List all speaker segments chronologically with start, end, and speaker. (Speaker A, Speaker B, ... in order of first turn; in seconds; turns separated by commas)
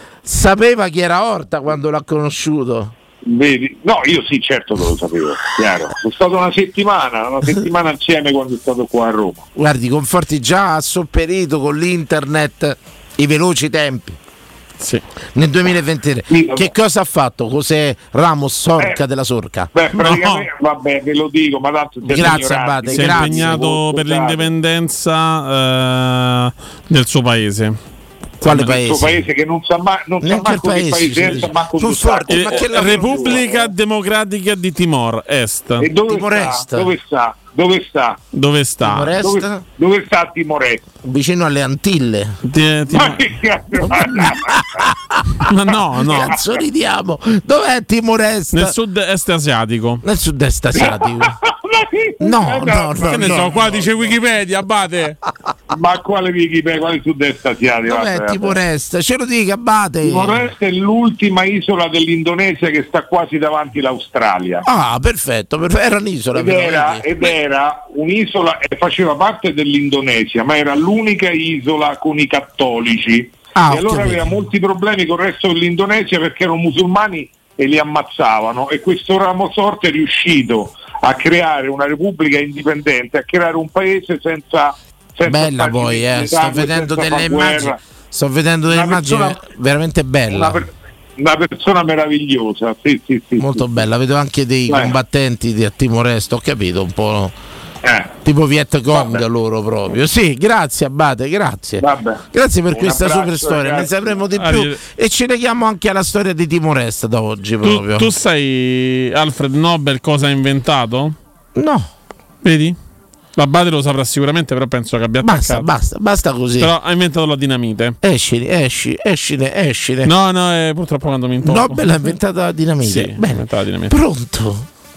Speaker A: 0.2-2.9, Speaker B: 3.3-9.5, Speaker A: 9.6-14.2, Speaker A: 15.3-19.7, Speaker B: 16.3-16.7, Speaker B: 19.7-24.5, Speaker C: 20.0-20.5, Speaker A: 22.1-23.7, Speaker C: 22.9-27.8, Speaker A: 28.4-29.2, Speaker B: 28.5-33.7, Speaker A: 30.2-33.5, Speaker C: 32.3-35.9, Speaker B: 35.8-38.2, Speaker A: 36.1-36.9, Speaker C: 38.3-39.2, Speaker A: 38.8-39.6, Speaker B: 39.2-40.8, Speaker A: 41.0-42.4, Speaker C: 42.4-43.3, Speaker B: 42.9-44.6, Speaker A: 43.8-45.3, Speaker C: 45.5-46.4, Speaker A: 46.0-48.8, Speaker C: 48.5-50.0, Speaker A: 50.0-51.3, Speaker B: 50.7-54.1, Speaker A: 52.2-53.8, Speaker C: 53.0-55.2, Speaker B: 55.7-58.6, Speaker A: 57.9-60.5, Speaker B: 60.0-64.6, Speaker A: 64.7-67.1, Speaker B: 66.3-87.8, Speaker A: 73.5-74.4, Speaker A: 85.2-90.6, Speaker B: 88.7-89.4, Speaker B: 90.3-93.8, Speaker A: 93.4-97.3, Speaker B: 94.7-95.0, Speaker B: 97.8-98.1, Speaker A: 98.2-108.1, Speaker B: 98.9-99.2, Speaker B: 101.8-102.2, Speaker B: 102.7-104.2, Speaker C: 104.4-104.8, Speaker C: 107.6-111.2, Speaker A: 111.5-111.9, Speaker C: 112.4-112.8, Speaker C: 113.4-115.7, Speaker A: 115.2-116.7, Speaker C: 116.6-118.0, Speaker A: 118.0-120.1, Speaker C: 120.0-121.8, Speaker A: 121.4-124.7, Speaker C: 122.8-123.9